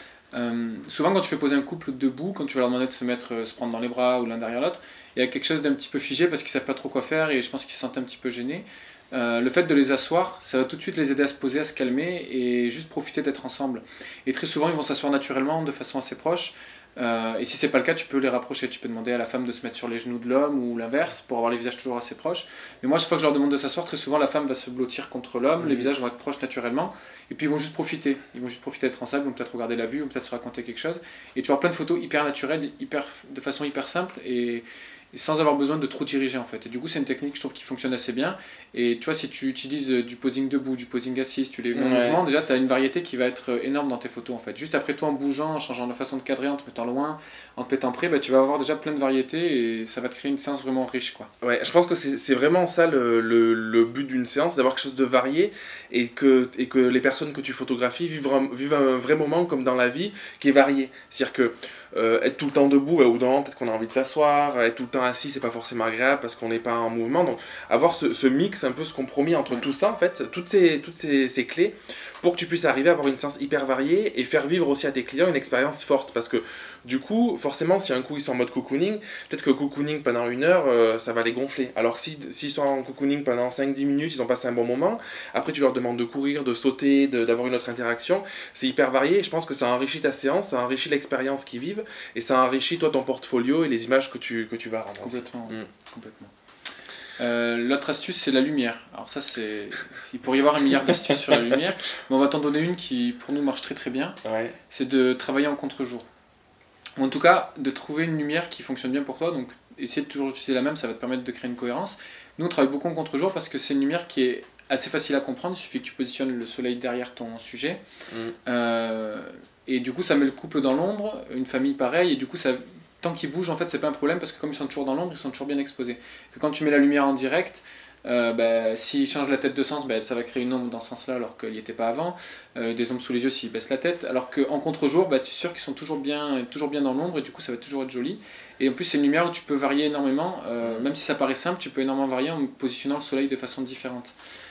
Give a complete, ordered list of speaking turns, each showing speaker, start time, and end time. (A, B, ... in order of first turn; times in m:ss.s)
0:00.3-0:51.3 A
0:25.6-0:25.9 B
0:41.7-0:42.4 B
0:51.4-1:35.7 B
1:35.0-1:36.3 A
1:37.2-1:44.2 A
1:44.2-1:44.6 B
1:44.7-1:46.1 A
1:47.0-1:57.8 A
1:58.5-2:24.1 A
2:20.6-2:20.9 B